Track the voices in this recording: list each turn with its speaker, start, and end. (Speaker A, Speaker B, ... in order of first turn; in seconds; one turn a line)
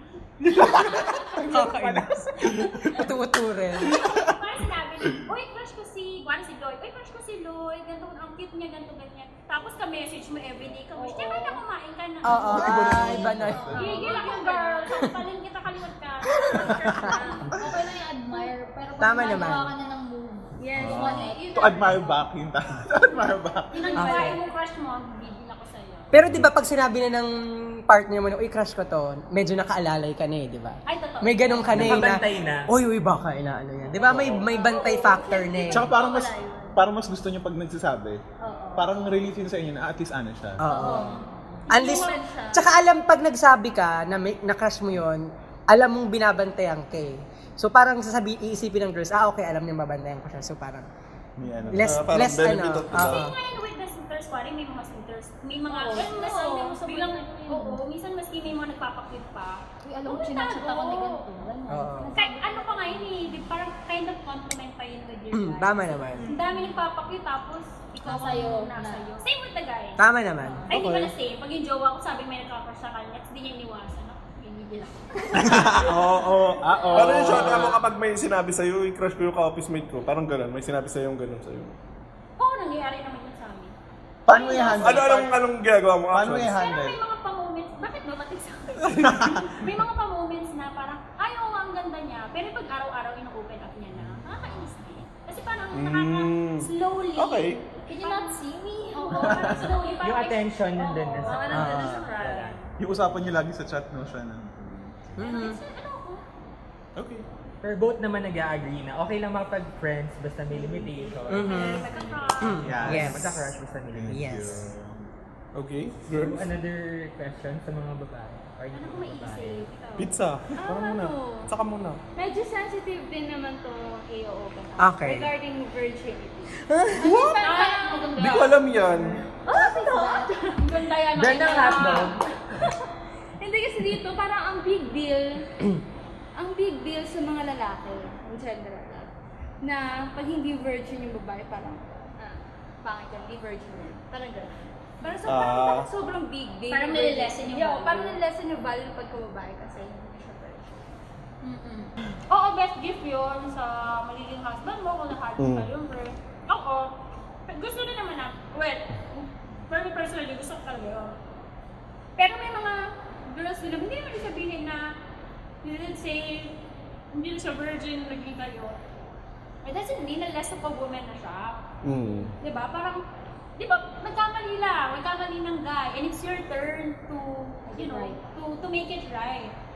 Speaker A: 0.4-1.2
Speaker B: 1.4-2.1
Speaker C: 1.5-4.0
Speaker D: 3.8-17.5
Speaker E: 11.0-11.6
Speaker C: 12.2-13.8
Speaker E: 12.5-15.1
Speaker B: 12.5-13.8
Speaker B: 16.6-17.0
Speaker E: 17.0-17.5
Speaker F: 17.5-21.6
Speaker C: 19.0-19.7
Speaker E: 20.6-22.3
Speaker B: 20.8-23.9
Speaker D: 23.7-26.4
Speaker C: 24.0-24.4
Speaker C: 26.1-27.3
Speaker C: 27.9-35.9
Speaker D: 30.9-32.2
Speaker G: 31.7-32.7
Speaker E: 34.0-36.8
Speaker A: 34.1-34.4
Speaker B: 35.7-38.2
Speaker E: 38.5-38.9
Speaker B: 38.8-40.6
Speaker C: 40.6-50.9
Speaker E: 40.7-42.7
Speaker D: 41.7-42.2
Speaker B: 51.4-52.2
Speaker C: 51.7-53.3
Speaker A: 51.8-53.3
Speaker D: 52.9-61.2
Speaker E: 55.7-57.7
Speaker F: 57.4-57.8
Speaker F: 59.8-63.4
Speaker C: 61.7-62.1
Speaker D: 62.1-70.1
Speaker C: 65.3-66.3
Speaker E: 66.2-66.8
Speaker F: 68.0-69.3
Speaker C: 70.0-70.7
Speaker D: 70.7-75.9
Speaker A: 70.7-71.1
Speaker B: 75.4-76.0
Speaker A: 75.7-81.8
Speaker B: 76.6-77.8
Speaker D: 77.0-77.5
Speaker D: 82.4-83.7
Speaker B: 84.3-85.4
Speaker D: 84.3-85.4
Speaker A: 84.8-86.6
Speaker B: 86.1-87.0
Speaker D: 86.4-98.4
Speaker B: 88.9-89.7
Speaker B: 94.0-94.5
Speaker A: 95.7-97.6
Speaker E: 97.9-99.7
Speaker F: 97.9-99.2
Speaker D: 98.9-101.5
Speaker B: 99.2-99.7
Speaker G: 100.0-102.6
Speaker E: 101.0-102.7
Speaker C: 101.5-102.1
Speaker B: 102.8-104.5
Speaker F: 104.5-104.9
Speaker C: 105.2-105.6
Speaker D: 105.2-106.2
Speaker B: 107.0-107.2
Speaker G: 107.6-111.8
Speaker D: 111.3-113.0
Speaker C: 111.3-111.9
Speaker E: 111.5-112.5
Speaker C: 112.4-113.3
Speaker G: 112.6-114.7
Speaker B: 112.7-115.0
Speaker C: 114.1-114.7
Speaker A: 115.5-116.5
Speaker G: 116.1-119.7
Speaker D: 118.7-120.1
Speaker A: 120.0-120.6
Speaker B: 120.6-122.0
Speaker E: 120.6-121.5
Speaker E: 122.2-128.5
Speaker C: 124.8-125.3
Speaker C: 126.6-127.3
Speaker D: 127.1-128.6
Speaker F: 127.1-128.2
Speaker A: 128.2-129.3
Speaker E: 129.4-132.7
Speaker F: 129.6-130.3
Speaker D: 130.6-132.2
Speaker G: 131.2-132.2
Speaker E: 133.4-135.4
Speaker E: 136.4-139.1
Speaker E: 139.6-150.8
Speaker A: 145.2-145.9
Speaker D: 146.7-148.2
Speaker F: 151.4-151.9
Speaker D: 152.3-156.9
Speaker A: 155.4-155.7
Speaker D: 157.5-161.2
Speaker D: 162.2-164.9
Speaker D: 165.6-166.6
Speaker D: 167.1-168.8
Speaker D: 169.6-171.6
Speaker A: 171.8-172.3
Speaker D: 172.3-173.0
Speaker D: 173.6-179.5
Speaker F: 177.7-178.2